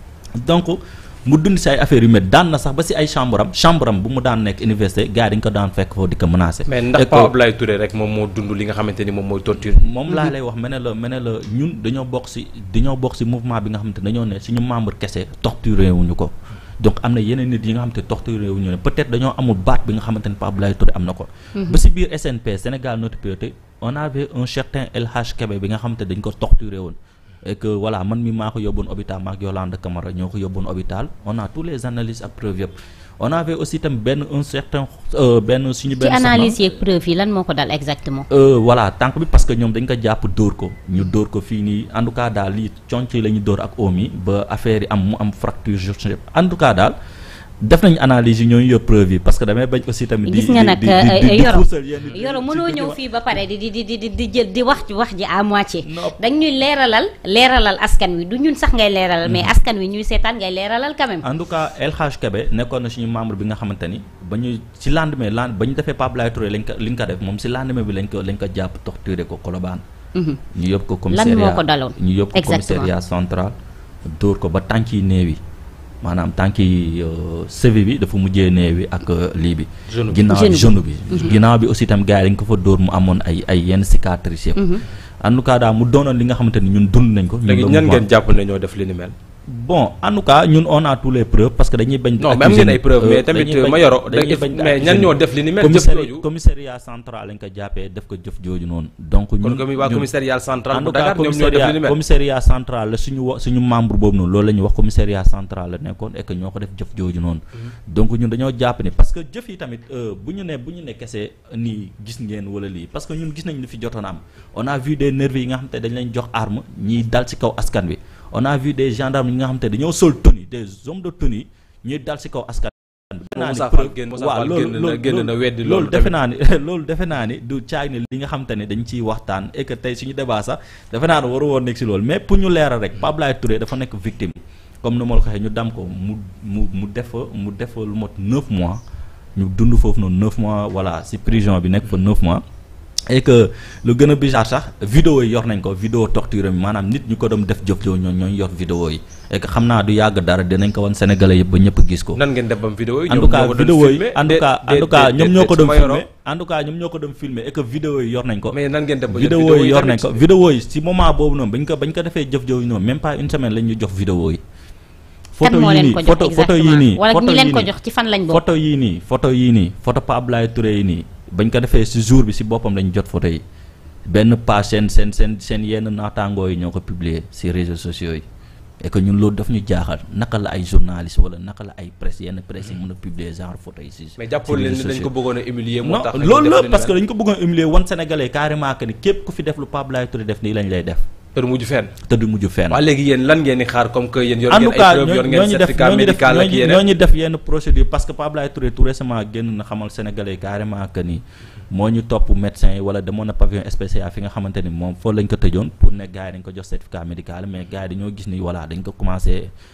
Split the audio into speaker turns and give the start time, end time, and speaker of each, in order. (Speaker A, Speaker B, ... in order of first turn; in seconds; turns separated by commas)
Speaker A: 0.4-7.3, Speaker B: 6.7-9.8, Speaker A: 9.6-36.6, Speaker C: 21.5-21.8, Speaker C: 35.9-38.3, Speaker A: 38.3-46.9, Speaker A: 47.6-53.0, Speaker C: 50.2-61.2, Speaker A: 55.8-56.2, Speaker A: 59.2-59.5, Speaker A: 61.2-69.8, Speaker C: 70.1-70.4, Speaker A: 70.5-73.5, Speaker C: 71.1-72.9, Speaker A: 74.2-75.4, Speaker A: 76.0-88.0, Speaker B: 79.9-80.2, Speaker C: 80.3-81.3, Speaker C: 84.5-84.8, Speaker B: 87.5-89.1, Speaker A: 89.5-100.1, Speaker B: 92.2-96.2, Speaker B: 99.4-102.0, Speaker A: 100.7-138.8, Speaker B: 123.3-126.2, Speaker A: 139.3-142.4, Speaker A: 143.1-152.2, Speaker B: 152.1-156.1, Speaker A: 153.1-158.6, Speaker B: 158.5-160.2, Speaker A: 159.1-164.4, Speaker A: 165.4-167.7, Speaker C: 165.4-168.4, Speaker A: 168.3-173.4, Speaker A: 174.1-178.2, Speaker A: 178.8-185.1, Speaker B: 184.2-187.0, Speaker A: 185.8-191.0, Speaker B: 191.3-191.9, Speaker A: 192.1-192.8, Speaker B: 192.7-196.9, Speaker A: 194.5-209.5